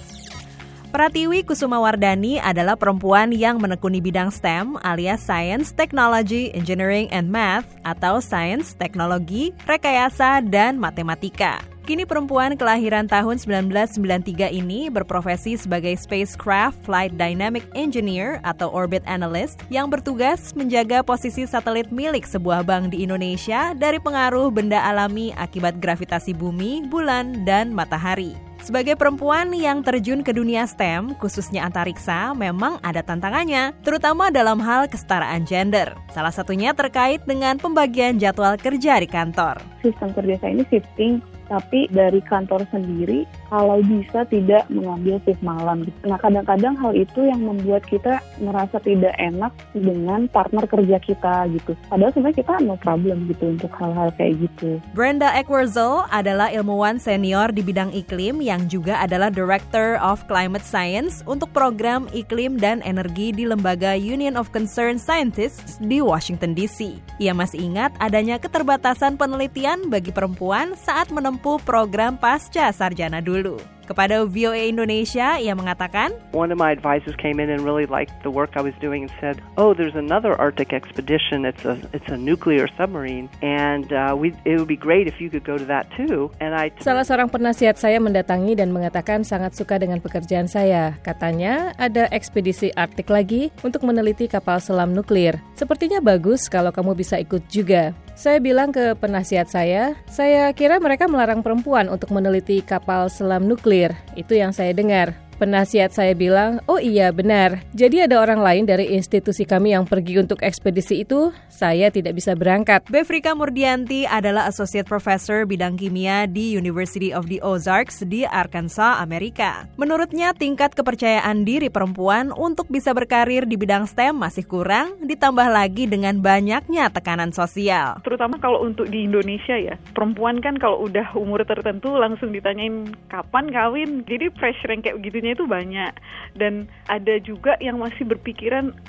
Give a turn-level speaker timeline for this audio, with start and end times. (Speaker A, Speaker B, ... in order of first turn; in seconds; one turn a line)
Speaker A: 0.9-39.6
Speaker B: 39.8-54.7
Speaker A: 54.9-76.2
Speaker C: 76.3-87.8
Speaker D: 86.8-112.8
Speaker A: 112.9-128.0
Speaker E: 128.1-135.8
Speaker E: 137.0-138.6